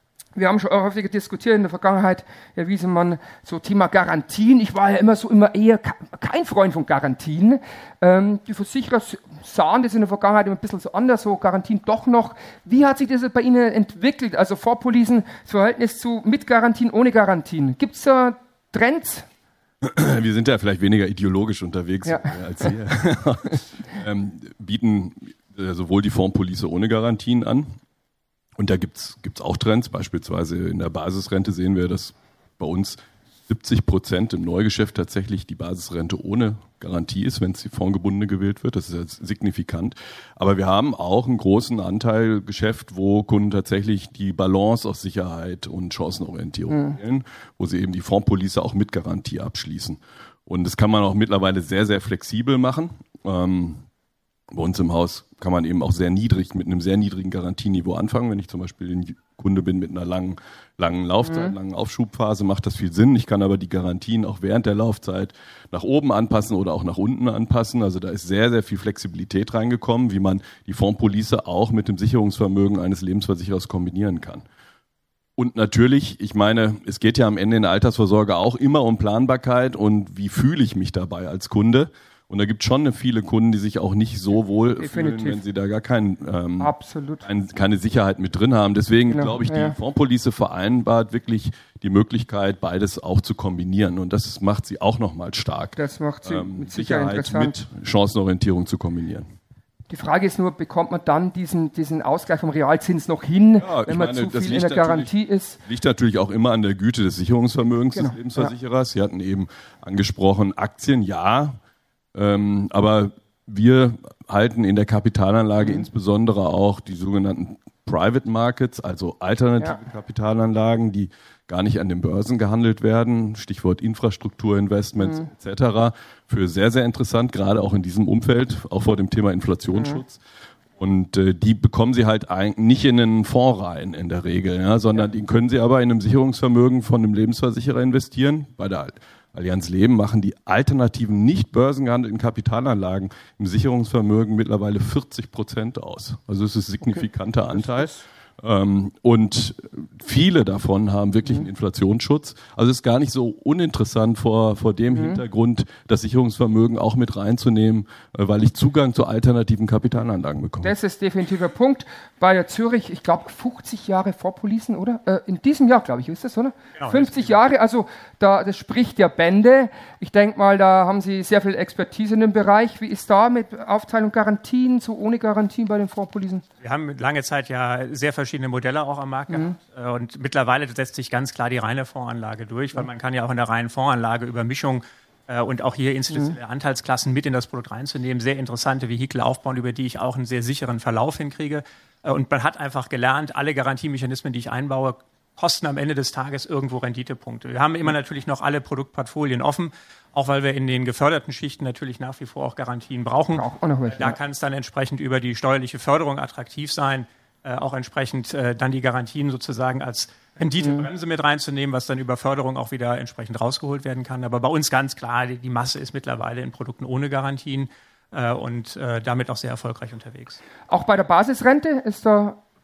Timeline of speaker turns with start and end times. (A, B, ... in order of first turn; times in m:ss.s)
0:00.4-0:19.3 A
0:19.8-0:27.8 B
0:22.1-0:22.4 A
0:28.6-0:53.8 B
0:54.5-1:14.4 B
1:15.4-1:26.7 B
1:24.8-1:25.4 A
1:26.6-1:27.2 A
1:27.2-1:39.3 B
1:29.1-1:29.8 A
1:35.8-1:37.5 A
1:39.9-1:45.6 A
1:43.6-1:45.1 B
1:45.6-1:51.6 B
1:48.0-1:48.5 A
1:52.1-2:10.2 B
2:10.8-2:40.7 B
2:34.9-2:35.2 A
2:40.6-2:56.4 A
2:46.8-2:47.4 C
2:56.6-3:40.4 C
3:23.4-3:24.2 A
3:40.7-3:42.4 A